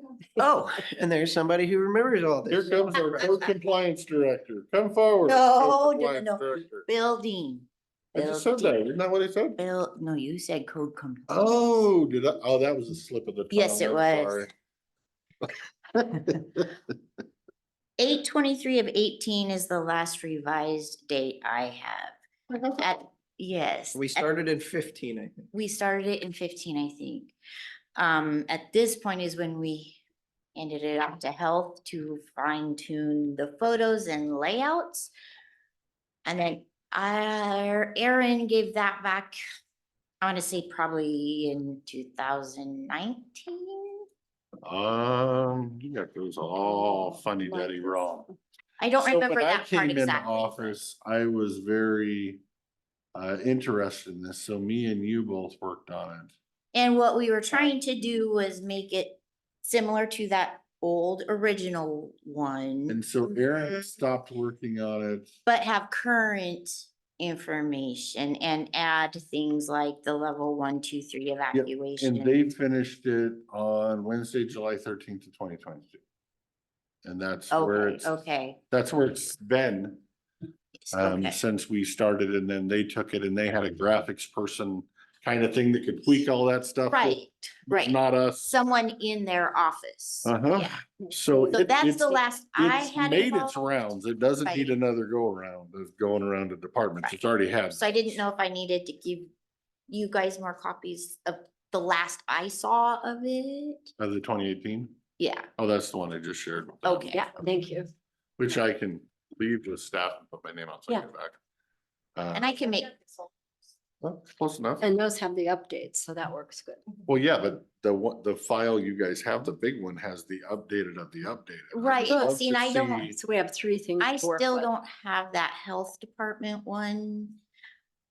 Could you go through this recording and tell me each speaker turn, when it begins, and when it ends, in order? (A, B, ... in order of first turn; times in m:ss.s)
0:00.4-0:03.3 A
0:02.5-0:06.9 B
0:05.2-0:08.8 C
0:08.1-0:09.6 B
0:09.6-0:11.7 C
0:11.3-0:14.5 B
0:13.5-0:14.5 C
0:16.2-0:16.6 B
0:18.0-0:22.2 C
0:22.7-0:24.2 C
0:23.9-0:25.5 A
0:25.5-0:27.3 C
0:28.0-0:30.0 C
0:30.5-0:35.1 C
0:36.2-0:39.4 C
0:40.2-0:44.1 C
0:44.6-0:48.3 B
0:46.6-0:48.4 D
0:48.8-0:50.7 C
0:49.0-0:52.4 B
0:53.1-0:56.3 B
0:56.7-1:03.4 C
1:02.9-1:05.3 B
1:05.4-1:12.4 C
1:11.5-1:16.0 B
1:17.0-1:18.1 B
1:17.5-1:18.6 C
1:18.7-1:20.0 B
1:20.9-1:21.4 C
1:20.9-1:28.6 B
1:26.9-1:31.0 C
1:30.2-1:37.8 B
1:31.5-1:33.6 C
1:34.4-1:34.7 C
1:37.0-1:39.3 C
1:39.9-1:43.9 C
1:44.0-1:45.0 B
1:45.2-1:45.5 C
1:45.6-1:47.2 B
1:46.8-1:47.3 C
1:47.1-1:47.9 D
1:48.4-1:51.4 B
1:52.2-1:52.5 B
1:52.3-1:53.3 C
1:54.0-1:54.9 B
1:54.8-1:56.8 D
1:57.1-2:03.2 B
2:01.7-2:03.1 C
2:02.0-2:02.4 D
2:03.0-2:04.7 D
2:04.0-2:07.4 C